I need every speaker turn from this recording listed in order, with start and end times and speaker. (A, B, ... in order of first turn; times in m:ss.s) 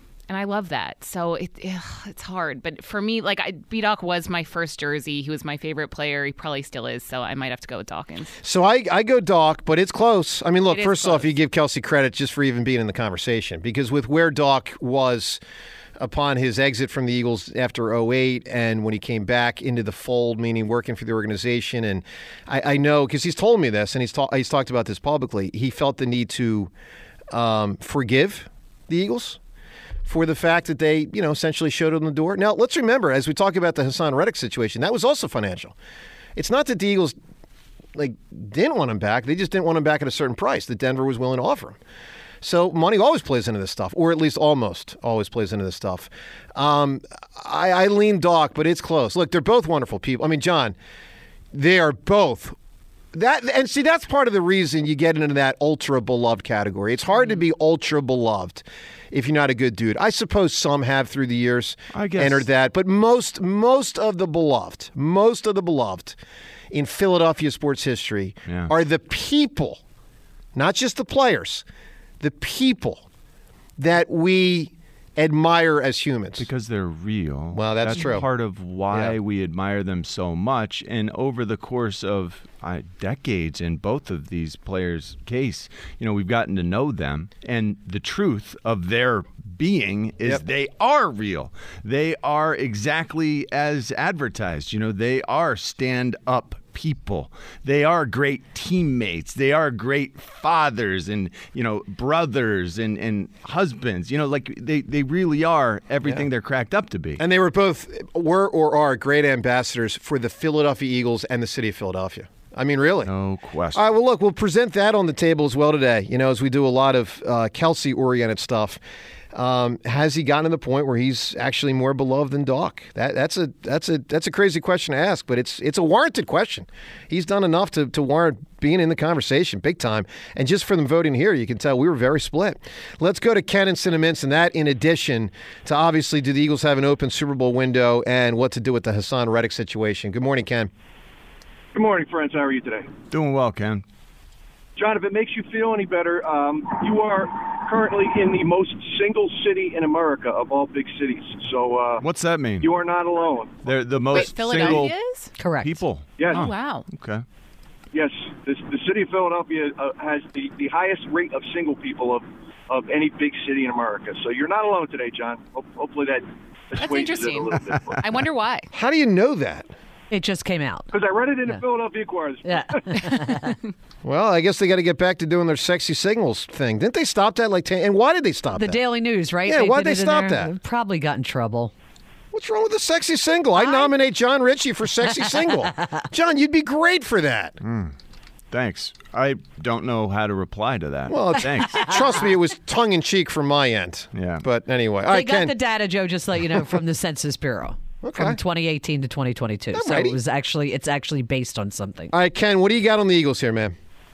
0:00.3-0:08.3 A
0:08.4-0:15.4 B
0:10.7-0:11.3 A
0:16.0-0:26.7 B
0:27.3-0:29.4 B
0:30.1-0:35.8 B
0:36.4-0:37.2 B
0:38.0-0:41.8 B
0:42.4-0:50.8 B
0:51.5-0:52.6 B
0:53.1-1:06.2 B
1:01.9-1:02.5 C
1:06.7-1:09.8 B
1:08.5-1:08.7 C
1:10.6-1:11.7 B
1:12.2-1:13.1 B
1:13.8-1:16.5 B
1:16.4-1:47.2 C
1:17.5-1:18.3 B
1:18.9-1:19.2 B
1:47.2-1:53.1 B
1:53.0-1:53.9 C
1:53.7-1:58.8 B
1:59.3-2:20.7 B
2:21.7-2:22.9 D
2:23.1-2:23.8 C
2:24.8-2:32.0 D
2:32.0-2:32.7 C
2:32.6-2:33.6 D
2:33.6-2:34.9 C
2:34.1-2:35.3 A
2:34.2-2:34.8 D
2:35.4-2:35.8 E
2:35.6-2:37.2 C
2:36.2-2:36.5 D
2:36.3-2:36.9 A
2:37.9-2:48.0 D
2:46.8-2:48.7 A
2:47.8-2:48.1 C
2:48.7-2:49.7 B
2:50.1-2:50.9 E
2:50.9-2:53.1 D
2:52.5-2:53.6 E
2:54.0-2:58.8 B
2:58.6-3:01.7 E
2:59.4-3:00.5 B
3:02.3-3:07.6 B
3:03.6-3:03.9 E
3:07.6-3:07.9 C
3:08.5-3:12.1 C
3:11.1-3:15.6 B
3:14.1-3:14.4 C
3:15.1-3:22.1 E
3:18.0-3:18.4 B
3:19.7-3:20.2 B
3:22.1-3:23.8 B